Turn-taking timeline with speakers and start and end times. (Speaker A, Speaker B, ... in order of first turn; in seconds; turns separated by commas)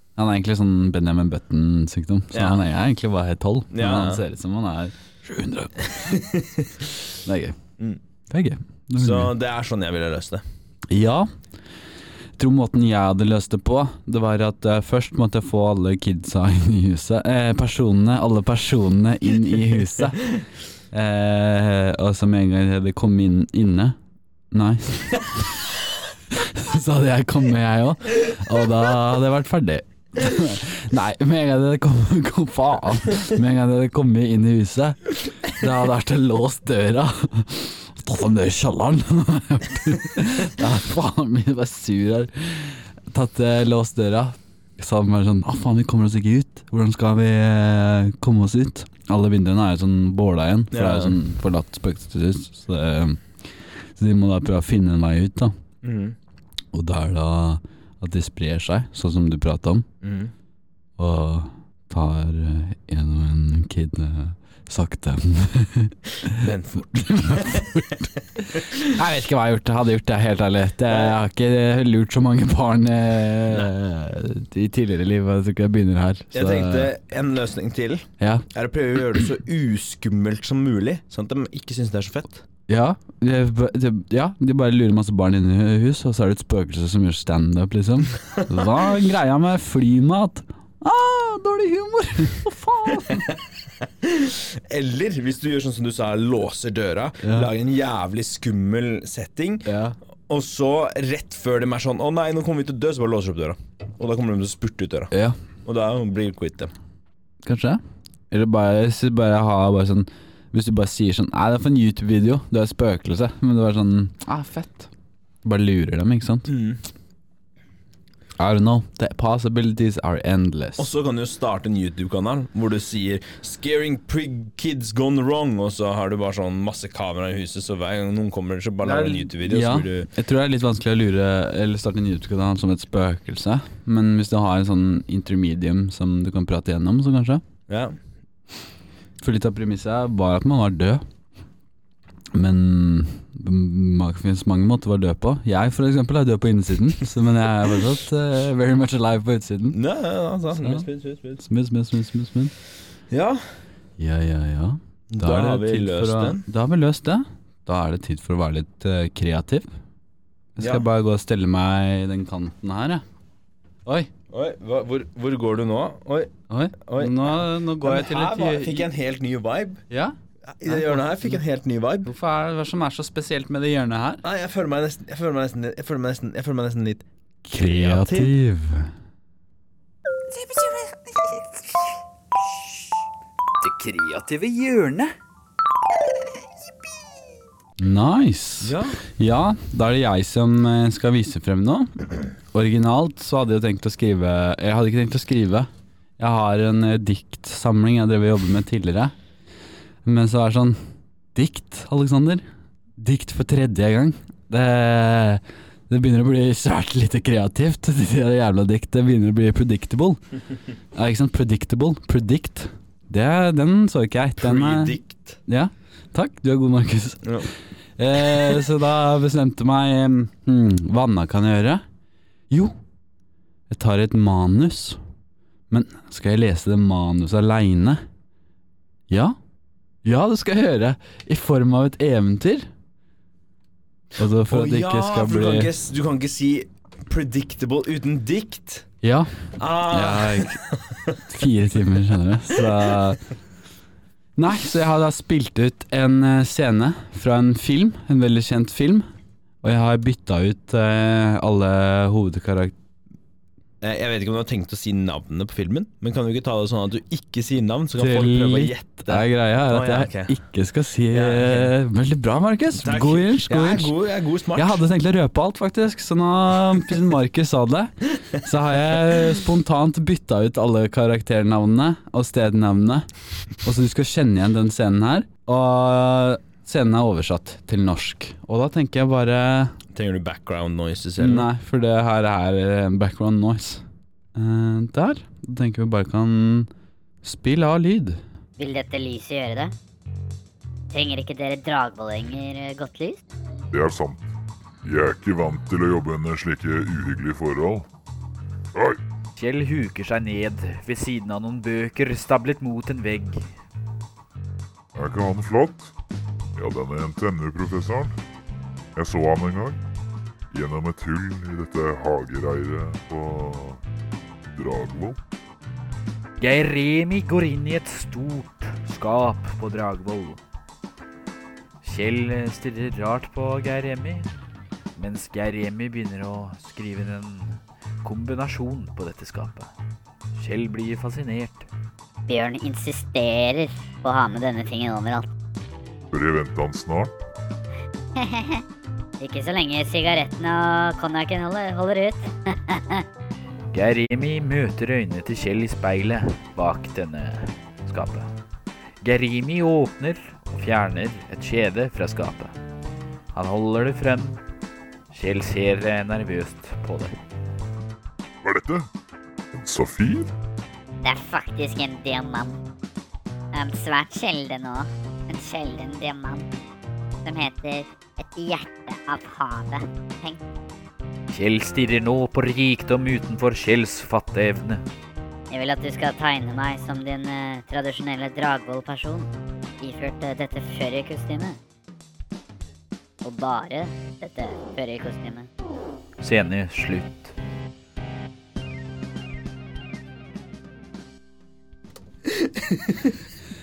Speaker A: 0.2-6.2, Speaker B: 2.3-2.6, Speaker B: 3.7-4.2, Speaker B: 5.9-6.7, Speaker A: 7.2-7.6, Speaker A: 8.3-9.3, Speaker B: 9.0-10.4, Speaker A: 10.9-11.3, Speaker A: 12.4-20.3, Speaker A: 20.9-24.0, Speaker A: 24.5-25.5, Speaker A: 26.3-55.5, Speaker B: 50.7-51.2, Speaker B: 55.8-56.2, Speaker A: 56.7-59.9, Speaker B: 60.0-60.3, Speaker A: 61.0-76.9, Speaker B: 66.3-67.8, Speaker B: 68.5-68.8, Speaker B: 70.9-71.2, Speaker B: 76.3-82.5, Speaker A: 78.2-78.5, Speaker A: 82.7-93.2, Speaker B: 93.1-99.7, Speaker A: 97.2-97.5, Speaker A: 99.7-100.0, Speaker B: 100.3-105.1, Speaker A: 105.1-105.4, Speaker B: 105.7-106.7, Speaker A: 107.4-114.9, Speaker A: 115.4-116.5, Speaker B: 116.5-116.8, Speaker A: 118.4-120.9, Speaker B: 120.8-130.1, Speaker A: 128.8-137.4, Speaker B: 137.7-138.0, Speaker A: 139.2-141.0, Speaker A: 142.3-149.8, Speaker B: 149.7-151.4, Speaker A: 150.6-150.8, Speaker A: 151.4-152.5, Speaker B: 153.1-153.4, Speaker A: 154.0-159.7, Speaker B: 155.1-156.4, Speaker A: 160.6-163.0, Speaker B: 160.6-160.8, Speaker B: 164.3-166.3, Speaker A: 166.5-168.9, Speaker B: 166.8-169.8, Speaker A: 169.9-170.2, Speaker B: 170.5-172.1, Speaker A: 170.7-171.3, Speaker A: 172.1-174.2, Speaker B: 174.2-178.3, Speaker A: 177.5-178.9, Speaker A: 180.3-181.9, Speaker A: 183.6-185.1, Speaker A: 187.8-199.2, Speaker B: 188.6-189.0, Speaker A: 200.1-200.8, Speaker A: 201.3-202.4, Speaker A: 203.0-210.2, Speaker A: 210.9-217.3, Speaker B: 214.4-215.4, Speaker B: 217.2-217.5, Speaker A: 218.0-221.8, Speaker A: 222.5-222.8, Speaker A: 223.7-225.0, Speaker A: 225.7-228.0, Speaker A: 229.1-229.4, Speaker A: 230.0-232.7, Speaker A: 234.2-235.7, Speaker B: 234.5-238.9, Speaker A: 239.0-240.6, Speaker B: 239.6-241.2, Speaker A: 241.3-243.3, Speaker B: 242.6-243.0, Speaker A: 244.4-249.1, Speaker A: 249.6-252.8, Speaker B: 253.8-260.4, Speaker A: 258.0-263.9, Speaker B: 261.1-261.7, Speaker B: 262.8-264.8, Speaker A: 264.6-279.8, Speaker B: 279.9-281.5, Speaker A: 281.2-286.7, Speaker A: 287.2-288.2, Speaker C: 288.6-289.7, Speaker C: 290.9-293.2, Speaker D: 293.7-294.3, Speaker D: 294.8-297.9, Speaker D: 298.8-299.0, Speaker E: 299.4-303.5, Speaker D: 304.9-305.9, Speaker D: 306.6-308.2, Speaker D: 309.0-309.8, Speaker D: 310.5-313.8, Speaker D: 314.6-315.2, Speaker E: 316.4-320.4, Speaker E: 321.8-324.3, Speaker E: 325.0-329.7, Speaker E: 330.3-331.7, Speaker C: 332.3-335.3, Speaker D: 336.1-337.1, Speaker C: 338.2-338.6, Speaker C: 339.2-343.0, Speaker E: 343.7-348.3, Speaker E: 349.0-352.6, Speaker E: 353.3-354.4, Speaker E: 355.1-357.1, Speaker D: 358.4-358.9, Speaker D: 359.5-360.3, Speaker C: 361.0-362.6, Speaker C: 363.5-366.4, Speaker C: 367.2-370.4, Speaker E: 371.3-374.8, Speaker C: 375.5-379.3, Speaker C: 379.8-381.6, Speaker C: 383.2-385.5, Speaker E: 386.2-387.3, Speaker B: 392.3-393.1